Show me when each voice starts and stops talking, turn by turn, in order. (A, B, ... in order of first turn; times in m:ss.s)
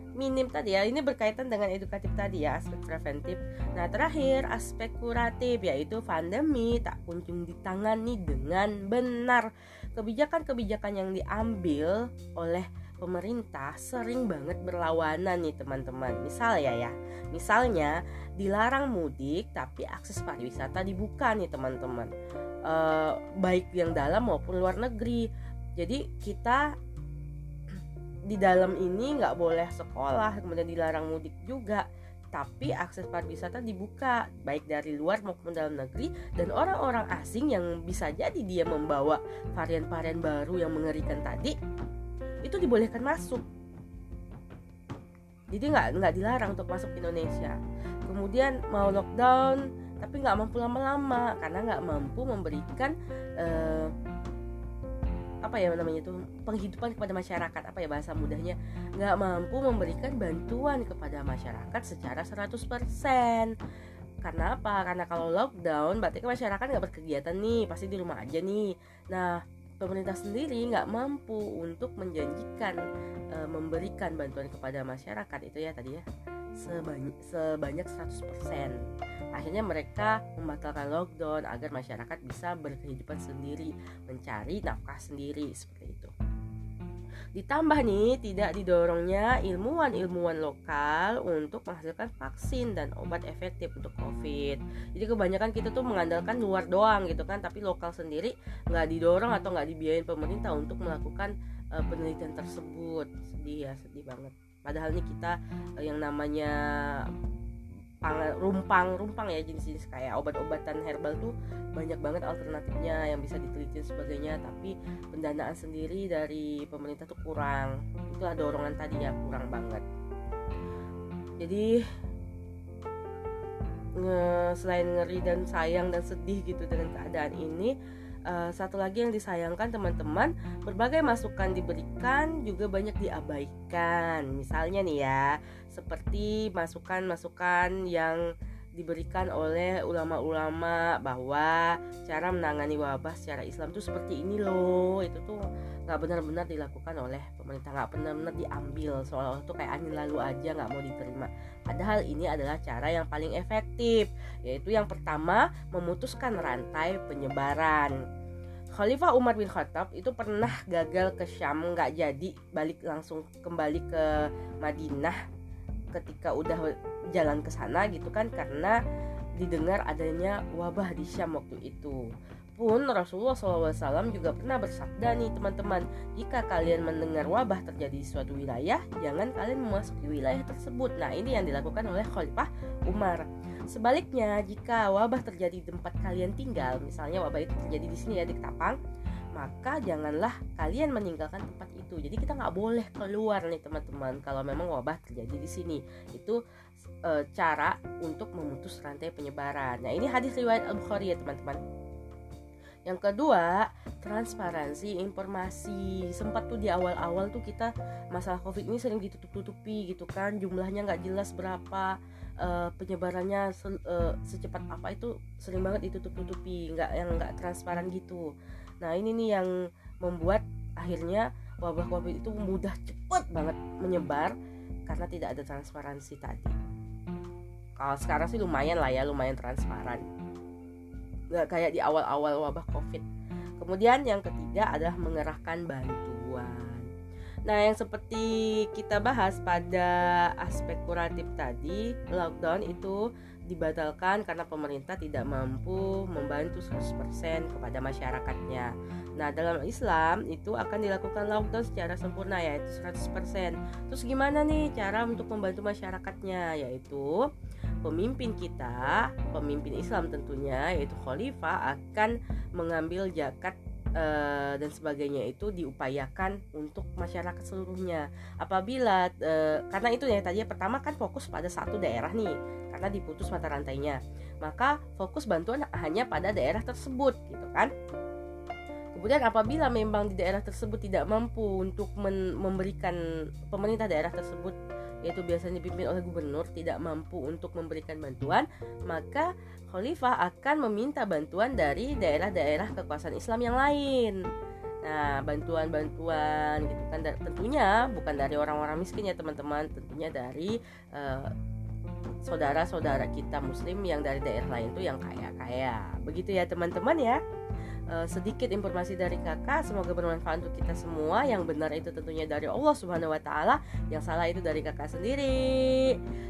0:00.2-0:22.1 A
0:22.7-0:26.7 A
0:28.3-0:41.6 A
0:42.4-0:43.4 A
0:45.5-0:53.9 A
0:55.4-1:03.5 A
1:04.2-1:12.8 A
1:13.3-1:16.0 A
1:16.6-1:18.8 A
1:19.3-1:26.1 A
1:27.4-1:47.1 A
1:48.0-1:59.8 A
2:01.4-2:01.8 A
2:04.0-2:07.8 A
2:08.3-2:18.2 A
2:18.8-2:38.0 A
2:38.8-2:45.2 A
2:45.9-2:48.8 A
2:49.4-2:52.0 A
2:52.6-3:08.8 A
3:09.4-3:16.4 A
3:17.0-3:21.6 A
3:22.9-3:38.3 A
3:38.8-3:39.5 A
3:40.0-3:44.3 A
3:44.9-3:46.6 A
3:47.8-3:50.1 A
3:51.3-3:53.1 A
3:53.6-3:56.9 A
3:57.5-4:17.3 A
4:17.8-4:37.7 A
4:38.9-4:54.2 A
4:54.8-5:01.3 A
5:02.2-5:07.2 A
5:07.9-5:16.0 A